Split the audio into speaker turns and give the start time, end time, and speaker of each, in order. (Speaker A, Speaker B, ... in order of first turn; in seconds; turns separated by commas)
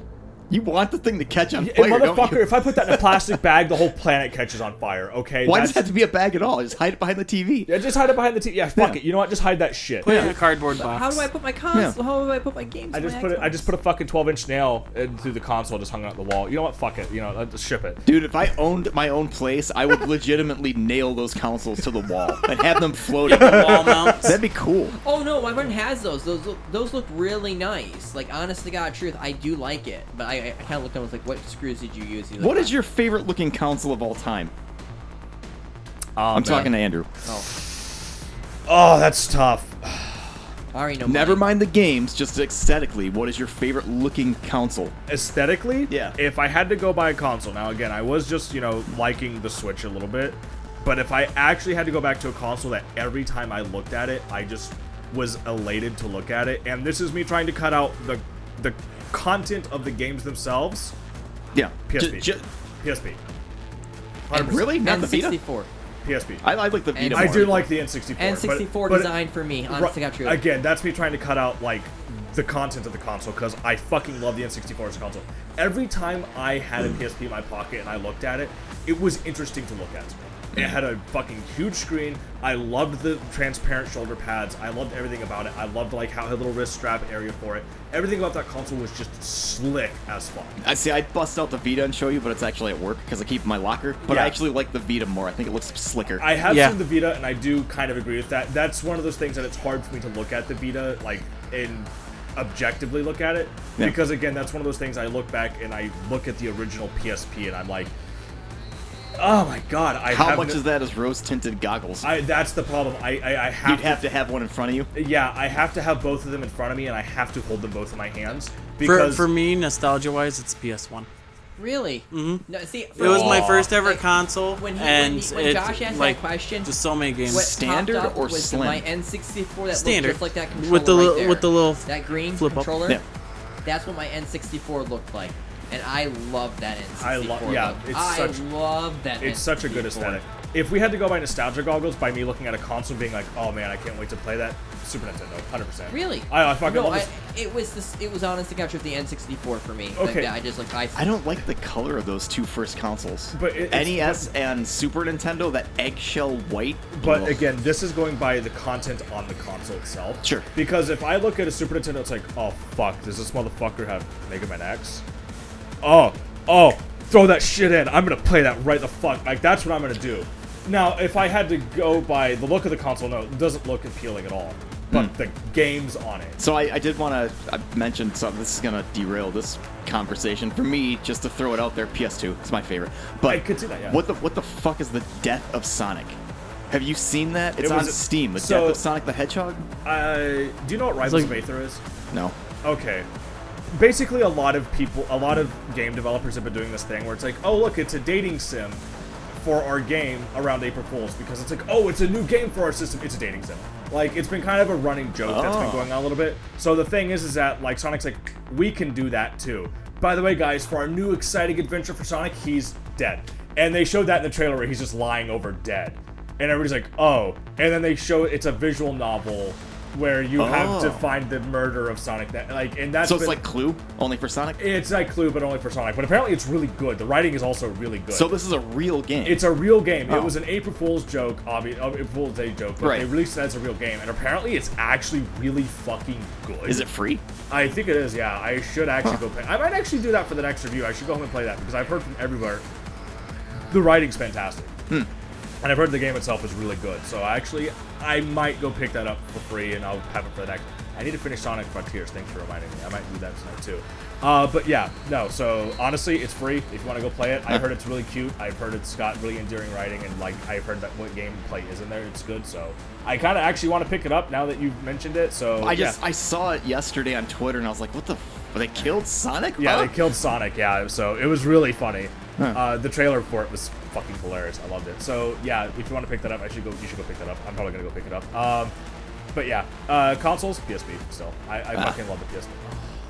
Speaker A: 0.5-3.4, Speaker B: 1.6-5.8, Speaker A: 5.4-7.7, Speaker B: 7.7-10.1, Speaker A: 8.7-9.0, Speaker C: 10.0-11.3, Speaker A: 10.0-10.3, Speaker D: 10.1-13.7, Speaker B: 12.9-18.0, Speaker A: 18.1-24.9, Speaker C: 23.2-24.4, Speaker B: 23.3-24.3, Speaker D: 25.0-32.7, Speaker A: 32.4-34.5, Speaker B: 36.1-36.7, Speaker A: 36.3-37.1, Speaker B: 38.7-40.3, Speaker D: 40.7-41.5, Speaker A: 41.1-44.9, Speaker B: 45.1-60.9, Speaker A: 45.9-46.2, Speaker A: 61.5-62.4, Speaker B: 61.9-63.2, Speaker B: 64.3-64.8, Speaker D: 64.3-65.7, Speaker A: 64.3-65.4, Speaker B: 66.0-66.5, Speaker A: 66.4-67.7, Speaker D: 66.9-70.4, Speaker B: 67.1-69.2, Speaker B: 69.7-90.6, Speaker A: 80.5-80.8, Speaker A: 90.6-96.3, Speaker B: 94.0-94.4, Speaker B: 96.2-107.9, Speaker C: 96.4-96.8, Speaker B: 109.2-110.6, Speaker A: 110.1-112.1, Speaker B: 112.0-114.0, Speaker A: 113.6-114.9, Speaker B: 114.9-119.3, Speaker C: 118.8-121.1, Speaker D: 121.6-124.0, Speaker C: 122.1-122.4, Speaker B: 123.0-123.7, Speaker C: 123.0-127.5, Speaker D: 124.5-126.7, Speaker A: 127.3-128.8, Speaker D: 127.3-133.0, Speaker C: 129.7-132.7, Speaker D: 133.6-140.2, Speaker B: 137.0-138.4, Speaker B: 139.2-147.1, Speaker D: 145.9-151.1, Speaker B: 149.9-150.3, Speaker A: 150.9-157.5, Speaker B: 153.3-154.3, Speaker B: 156.9-165.0, Speaker A: 160.2-160.5, Speaker B: 165.8-176.4, Speaker A: 176.4-186.2, Speaker B: 183.3-184.0, Speaker A: 186.7-189.7, Speaker B: 187.6-188.8, Speaker B: 189.8-191.8, Speaker C: 191.0-191.3, Speaker B: 192.6-193.1, Speaker B: 193.7-198.8, Speaker B: 199.4-223.4, Speaker A: 205.2-205.9, Speaker A: 220.3-221.1, Speaker A: 223.0-224.6, Speaker B: 224.6-228.3, Speaker A: 228.1-229.5, Speaker B: 229.2-236.9, Speaker A: 230.1-230.3, Speaker A: 232.8-233.1, Speaker A: 236.6-237.2, Speaker B: 237.5-242.6, Speaker B: 243.7-244.7, Speaker B: 245.6-266.0, Speaker A: 265.6-270.0, Speaker B: 269.6-278.7, Speaker A: 272.4-272.7, Speaker B: 279.3-282.9, Speaker A: 281.7-282.0